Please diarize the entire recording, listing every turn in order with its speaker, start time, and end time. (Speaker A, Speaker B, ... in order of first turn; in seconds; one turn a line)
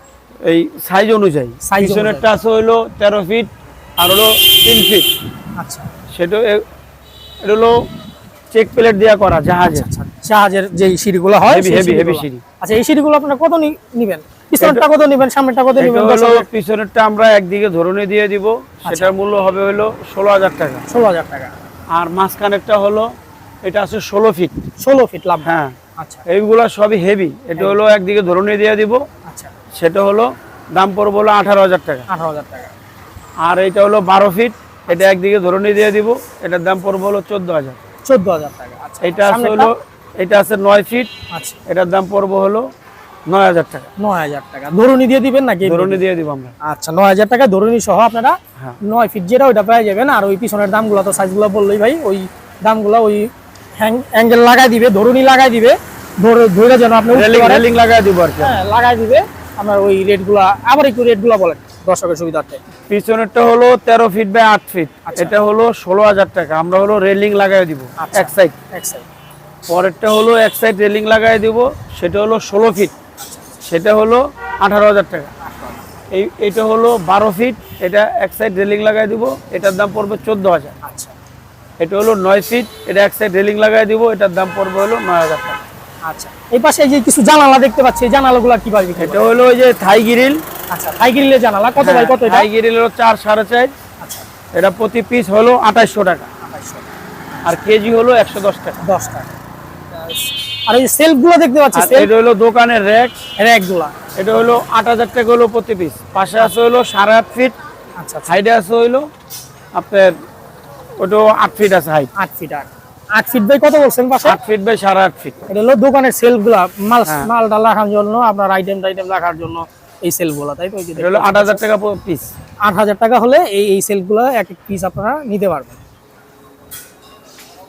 Speaker A: 0.4-5.1
Speaker B: 1.6-2.2
Speaker B: 5.6-5.9
Speaker A: 6.1-6.6
Speaker A: 7.4-7.7
Speaker A: 8.5-9.9
Speaker B: 9.7-16.4
Speaker A: 11.5-12.4
Speaker A: 14.6-14.9
Speaker A: 15.8-20.8
Speaker B: 18.8-19.1
Speaker B: 20.9-21.5
Speaker A: 21.9-23.1
Speaker A: 23.6-24.6
Speaker B: 24.8-26.2
Speaker A: 25.4-29.0
Speaker B: 29.2-29.5
Speaker A: 29.8-32.1
Speaker B: 32.1-32.7
Speaker A: 33.4-37.8
Speaker B: 38.1-39.7
Speaker A: 39.0-41.1
Speaker B: 41.3-41.6
Speaker A: 41.7-42.7
Speaker A: 43.3-43.9
Speaker B: 44.0-46.0
Speaker A: 45.6-46.5
Speaker B: 46.6-57.6
Speaker A: 57.1-58.5
Speaker B: 58.4-62.6
Speaker A: 62.9-68.5
Speaker B: 65.0-65.3
Speaker B: 68.0-69.0
Speaker A: 69.7-72.9
Speaker B: 73.2-73.6
Speaker A: 73.7-75.3
Speaker B: 75.4-75.8
Speaker A: 76.1-80.8
Speaker B: 80.8-81.1
Speaker A: 81.8-85.6
Speaker B: 86.1-89.2
Speaker A: 89.0-90.4
Speaker B: 90.7-92.5
Speaker A: 91.8-93.7
Speaker B: 94.0-94.2
Speaker A: 94.5-96.3
Speaker B: 96.4-97.4
Speaker A: 97.4-98.8
Speaker B: 98.8-99.3
Speaker B: 100.7-102.1
Speaker A: 101.7-103.1
Speaker B: 103.4-103.9
Speaker A: 104.2-107.5
Speaker B: 108.0-108.3
Speaker A: 108.3-109.1
Speaker A: 109.7-110.1
Speaker A: 111.0-112.1
Speaker B: 112.2-114.4
Speaker A: 114.2-115.4
Speaker B: 115.5-121.6
Speaker A: 121.0-122.3
Speaker B: 122.6-125.8